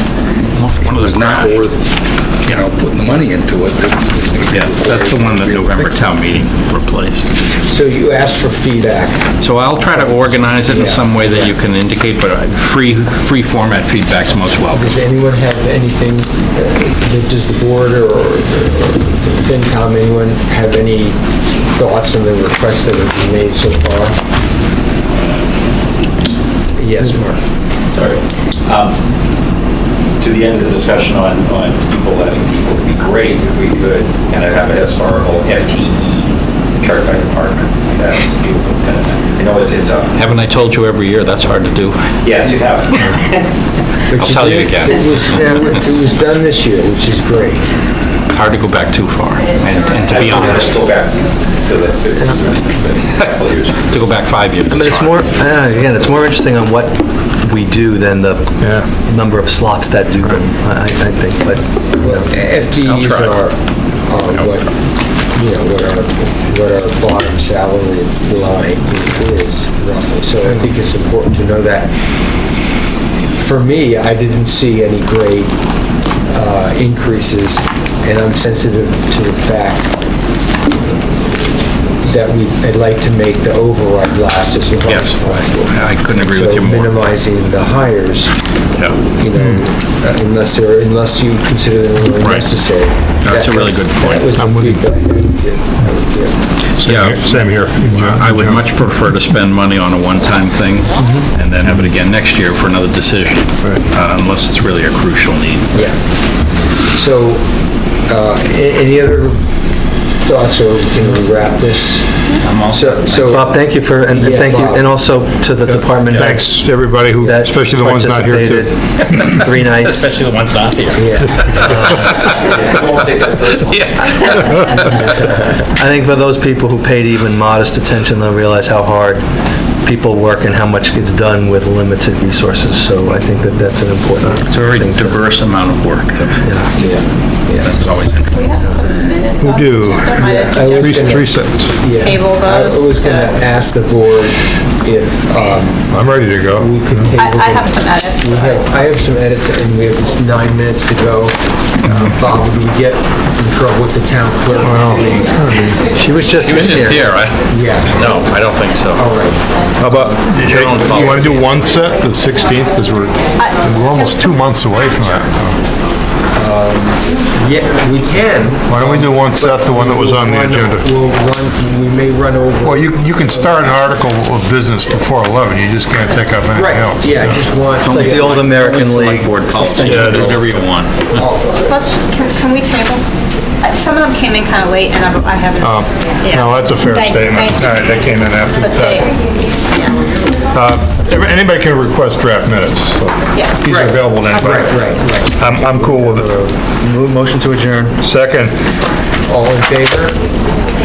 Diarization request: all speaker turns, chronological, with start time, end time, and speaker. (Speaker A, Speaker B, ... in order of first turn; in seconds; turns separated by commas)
Speaker A: 0.5-1.7, Speaker B: 0.8-6.3, Speaker A: 4.5-7.2, Speaker C: 7.7-9.2, Speaker A: 9.4-14.9, Speaker C: 9.8-11.5, Speaker C: 14.7-21.2, Speaker C: 21.7-24.2, Speaker D: 25.1-25.5, Speaker C: 26.8-27.4, Speaker D: 27.9-29.0, Speaker D: 30.2-40.1, Speaker A: 40.1-42.1, Speaker D: 42.2-43.4, Speaker C: 44.1-47.6, Speaker A: 44.2-45.8, Speaker A: 48.3-50.8, Speaker D: 50.1-53.8, Speaker A: 53.2-55.2, Speaker E: 54.7-62.3, Speaker F: 58.6-58.9, Speaker C: 62.0-64.8, Speaker A: 62.9-63.4, Speaker C: 65.3-71.9, Speaker C: 73.2-75.5, Speaker C: 76.2-80.0, Speaker C: 82.0-88.3, Speaker A: 84.9-87.0, Speaker C: 89.1-96.3, Speaker A: 92.2-92.5, Speaker A: 93.2-94.3, Speaker F: 94.4-94.8, Speaker F: 96.8-98.7, Speaker A: 96.8-105.9, Speaker C: 101.0-101.3, Speaker C: 105.7-106.0, Speaker C: 106.8-107.5, Speaker C: 108.1-109.5, Speaker C: 110.2-113.5, Speaker A: 112.4-113.4, Speaker E: 113.2-120.2, Speaker C: 114.1-114.9, Speaker F: 116.1-118.7, Speaker A: 119.0-125.4, Speaker C: 120.9-121.4, Speaker E: 121.7-122.1, Speaker D: 122.3-124.4, Speaker F: 124.5-124.8, Speaker E: 125.1-129.3, Speaker E: 129.8-135.2, Speaker A: 134.5-136.8, Speaker E: 136.4-136.8, Speaker C: 136.8-137.7, Speaker A: 137.4-138.5, Speaker G: 138.3-143.4, Speaker F: 139.4-140.2, Speaker C: 140.2-155.6, Speaker F: 140.7-141.8, Speaker F: 145.9-147.1, Speaker G: 147.1-148.7, Speaker F: 154.6-155.9, Speaker E: 155.9-157.0, Speaker A: 156.4-159.1, Speaker C: 157.5-158.2, Speaker C: 158.9-159.4, Speaker F: 159.8-165.6, Speaker A: 160.4-161.7, Speaker G: 163.4-165.2, Speaker C: 166.3-173.5, Speaker F: 168.7-170.9, Speaker F: 172.6-177.4, Speaker C: 176.5-178.4, Speaker A: 177.8-181.2, Speaker E: 177.8-180.4, Speaker F: 179.8-180.4, Speaker C: 181.1-181.7, Speaker G: 181.6-183.0, Speaker G: 183.6-190.1, Speaker F: 185.6-189.1, Speaker F: 190.5-196.4, Speaker G: 193.3-193.7, Speaker C: 193.7-195.3, Speaker E: 196.1-198.0, Speaker F: 198.0-198.5, Speaker C: 199.2-200.2